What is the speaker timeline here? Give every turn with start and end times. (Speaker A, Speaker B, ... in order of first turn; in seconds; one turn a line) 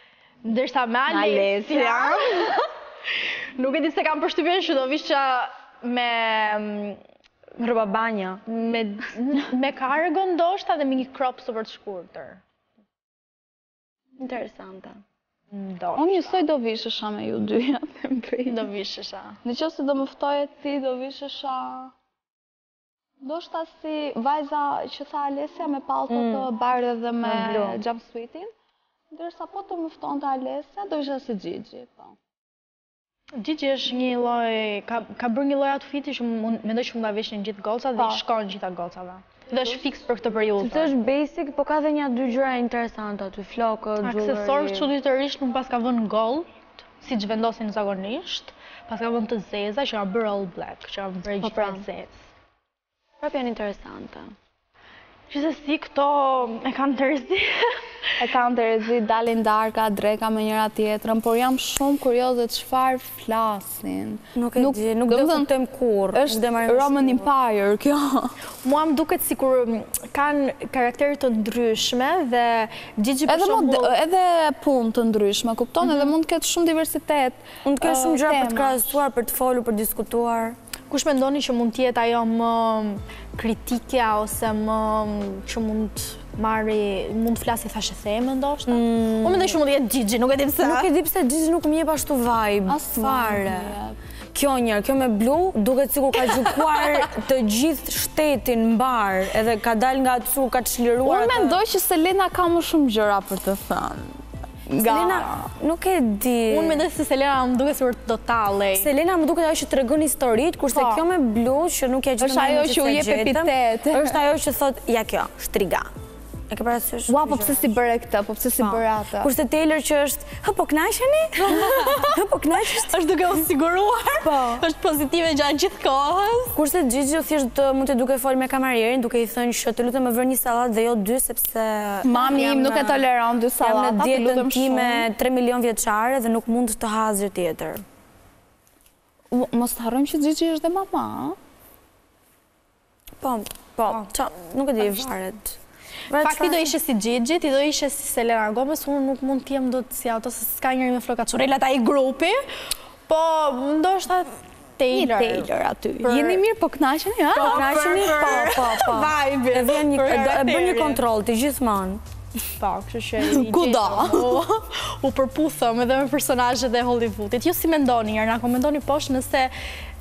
Speaker A: 0.4-7.0
Speaker B: 1.1-2.5
Speaker C: 7.6-8.4
Speaker A: 8.4-12.4
Speaker C: 14.2-15.0
Speaker A: 15.5-16.4
Speaker B: 15.9-18.7
Speaker A: 18.5-19.4
Speaker B: 19.4-21.9
Speaker B: 23.2-28.5
Speaker C: 26.1-26.5
Speaker C: 27.2-27.8
Speaker B: 29.1-32.1
Speaker A: 33.3-40.9
Speaker B: 38.0-38.2
Speaker C: 40.6-44.9
Speaker A: 44.0-52.1
Speaker C: 51.4-51.8
Speaker C: 53.2-54.3
Speaker A: 55.3-57.8
Speaker B: 58.2-65.5
Speaker C: 64.3-67.3
Speaker B: 66.1-68.3
Speaker A: 68.6-73.9
Speaker B: 73.3-78.9
Speaker C: 77.6-80.6
Speaker A: 80.9-90.9
Speaker C: 88.7-89.6
Speaker C: 90.6-93.8
Speaker B: 92.7-94.0
Speaker C: 94.3-101.6
Speaker A: 96.4-97.1
Speaker B: 101.0-105.3
Speaker C: 104.8-106.8
Speaker A: 104.9-105.3
Speaker A: 106.5-108.9
Speaker C: 108.8-115.9
Speaker B: 112.2-114.2
Speaker C: 116.5-117.6
Speaker B: 117.1-119.3
Speaker C: 118.6-123.0
Speaker A: 121.4-122.2
Speaker A: 122.7-126.6
Speaker C: 124.2-124.6
Speaker C: 126.5-133.1
Speaker B: 132.0-135.1
Speaker C: 133.6-137.8
Speaker B: 139.3-141.4
Speaker C: 143.2-145.6
Speaker C: 146.1-146.7
Speaker A: 146.2-152.4
Speaker A: 153.1-155.5
Speaker B: 154.9-157.7
Speaker A: 156.0-156.4
Speaker C: 157.3-162.0
Speaker A: 157.3-161.0
Speaker A: 162.6-169.5
Speaker B: 163.2-164.4